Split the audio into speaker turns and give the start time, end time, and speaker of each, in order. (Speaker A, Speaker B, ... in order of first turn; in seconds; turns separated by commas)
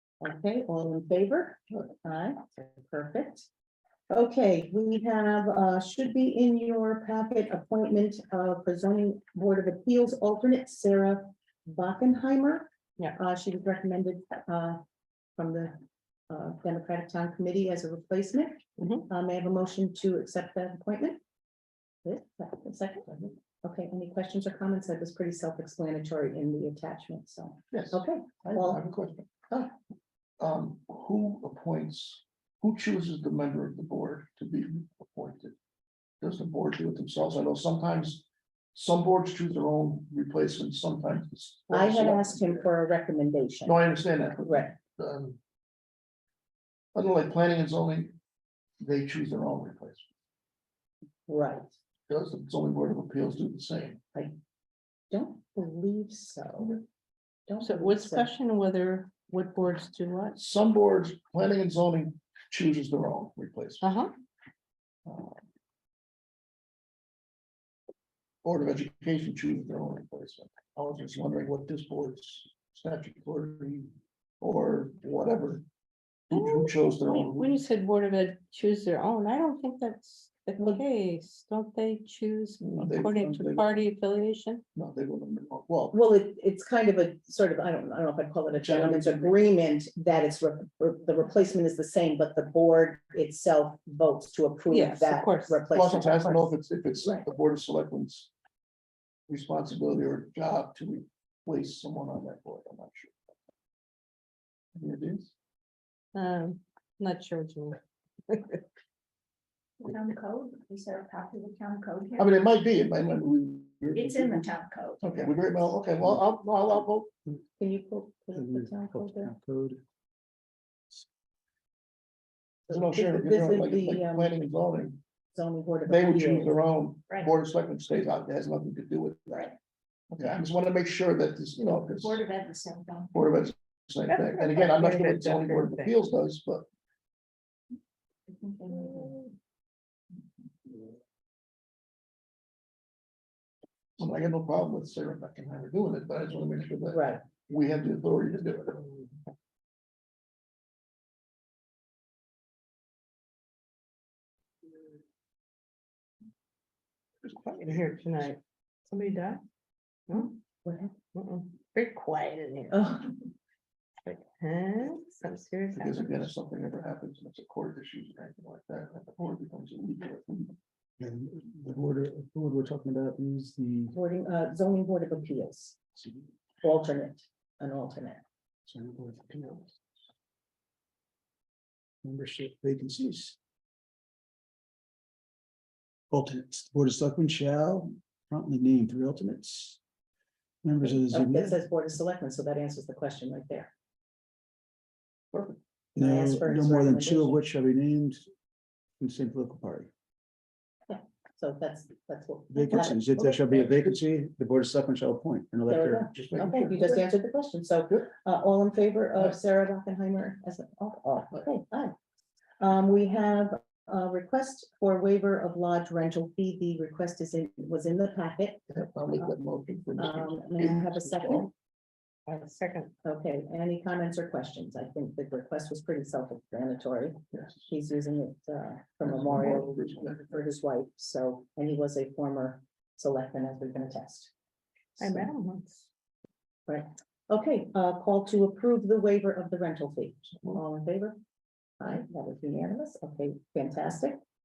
Speaker A: 0.2-3.5, Speaker A: 4.1-14.8, Speaker A: 15.4-15.8, Speaker A: 16.3-21.2, Speaker B: 18.8-19.1, Speaker A: 22.0-23.1, Speaker C: 23.1-23.3, Speaker A: 23.6-28.8, Speaker C: 27.7-29.5, Speaker C: 30.4-35.5, Speaker C: 36.2-42.7, Speaker A: 41.7-43.8, Speaker C: 43.6-45.4, Speaker A: 44.4-44.7, Speaker C: 46.9-48.1, Speaker C: 48.8-50.0, Speaker A: 51.3-51.7, Speaker C: 52.1-54.0, Speaker A: 55.1-56.8, Speaker A: 57.5-58.3, Speaker B: 57.6-60.4, Speaker C: 60.4-63.9, Speaker B: 63.8-64.1, Speaker C: 65.0-65.4, Speaker C: 68.4-75.6, Speaker C: 76.3-77.6, Speaker B: 76.3-84.6, Speaker A: 80.6-80.8, Speaker C: 82.6-83.8, Speaker C: 84.7-86.0, Speaker A: 85.9-96.5, Speaker C: 88.6-89.4, Speaker B: 94.7-95.7, Speaker C: 95.7-98.3, Speaker C: 99.3-103.1, Speaker C: 104.7-105.3, Speaker B: 106.1-108.6, Speaker D: 109.8-112.4, Speaker C: 112.2-114.4, Speaker D: 113.9-115.2, Speaker C: 115.0-117.1, Speaker A: 117.6-119.3, Speaker E: 118.3-119.8, Speaker A: 122.7-124.3, Speaker C: 122.7-125.0, Speaker A: 125.3-126.6, Speaker C: 125.8-129.5, Speaker C: 130.1-132.2, Speaker D: 131.8-133.2, Speaker C: 133.1-136.7, Speaker B: 134.1-136.0, Speaker D: 138.3-139.2, Speaker B: 138.7-139.3, Speaker C: 144.0-148.9, Speaker A: 146.9-147.2, Speaker C: 157.2-158.0, Speaker B: 157.6-159.4, Speaker B: 160.1-160.4, Speaker A: 160.1-160.9, Speaker B: 161.1-162.9, Speaker A: 162.7-163.1, Speaker B: 164.0-166.3, Speaker C: 165.7-170.6, Speaker E: 171.0-173.9, Speaker A: 173.9-175.8, Speaker E: 175.9-176.2, Speaker A: 176.6-178.2, Speaker E: 178.7-179.8, Speaker E: 182.0-183.3, Speaker E: 186.1-189.8, Speaker E: 190.6-191.6, Speaker A: 190.8-193.7, Speaker C: 195.3-195.6, Speaker A: 195.9-197.4, Speaker E: 195.9-198.2, Speaker E: 199.0-199.9, Speaker A: 200.9-203.7, Speaker E: 202.5-206.1, Speaker A: 205.7-211.9, Speaker C: 206.1-207.0, Speaker A: 212.6-218.6, Speaker C: 218.7-221.5, Speaker A: 220.0-221.5, Speaker B: 222.3-222.9, Speaker A: 223.0-234.3, Speaker C: 229.0-230.3, Speaker A: 235.0-235.3, Speaker B: 235.0-235.9, Speaker A: 236.7-241.2, Speaker A: 241.8-244.2